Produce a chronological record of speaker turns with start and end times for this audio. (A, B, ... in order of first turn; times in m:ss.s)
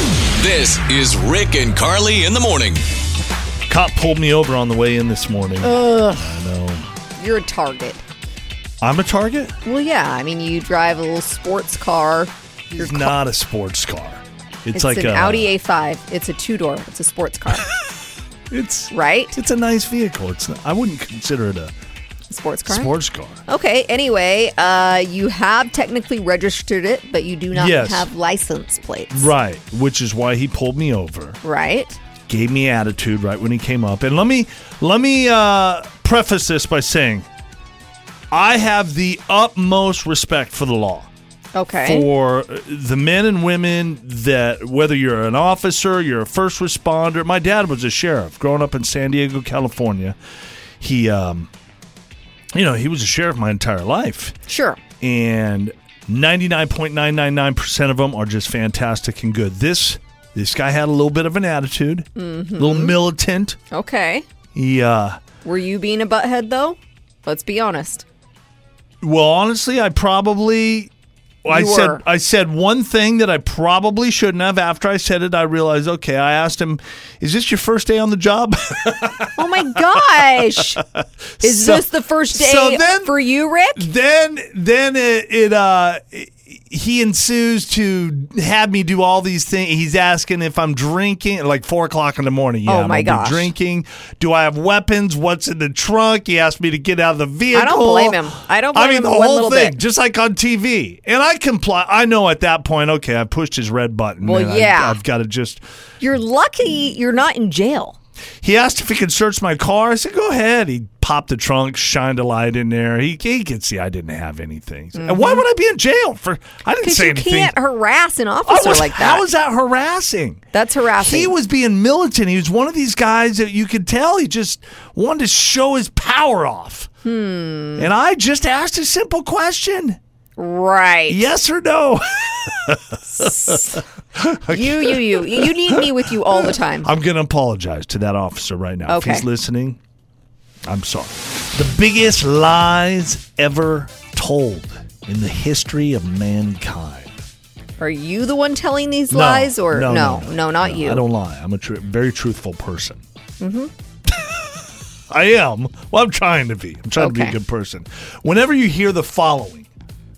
0:00.3-0:02.8 A
0:03.7-0:06.9 B
0:05.6-0:06.3 C
0:07.2-0:08.0 C
0:08.8-0:09.6 B
0:09.6-0:13.1 C
0:12.7-0:15.5 B
0:14.7-0:17.7 C
0:18.5-0:21.7 B
0:18.9-0:19.4 C
0:22.3-0:22.9 C
0:22.6-0:23.4 B
0:23.5-0:29.3 C
0:27.5-0:28.1 B
0:29.1-0:31.4 B
0:31.4-0:32.0 C
0:32.3-0:37.3 B
0:38.3-0:41.1 B
0:41.5-0:42.1 C
0:41.8-0:50.2 B
0:50.8-0:51.5 B
0:52.5-0:54.3 B
0:54.5-0:54.8 C
0:55.0-1:03.6 B
1:02.2-1:03.0 C
1:03.7-1:04.2 C
1:04.5-1:05.2 B
1:05.4-1:08.0 C
1:09.0-1:10.9 B
1:11.4-1:23.1 B
1:11.5-1:12.0 C
1:19.4-1:20.8 C
1:21.4-1:23.9 C
1:23.8-1:38.2 B
1:32.7-1:33.5 C
1:37.5-1:39.8 C
1:38.7-1:45.6 B
1:44.2-1:45.0 C
1:46.0-1:48.0 C
1:48.4-1:57.5 B
1:54.9-1:55.4 C
1:56.8-1:59.3 C
1:58.4-2:00.4 B
2:00.5-2:01.3 C
2:01.0-2:06.9 B
2:07.0-2:07.9 C
2:07.8-2:10.0 B
2:10.4-2:11.3 C
2:11.1-2:19.8 B
2:13.1-2:13.8 C
2:14.5-2:16.9 C
2:18.9-2:19.2 C
2:20.6-2:27.2 B
2:27.8-2:31.0 C
2:29.1-2:33.0 B
2:33.4-2:33.7 C
2:34.1-2:34.6 B
2:35.1-2:39.7 B
2:37.0-2:37.4 C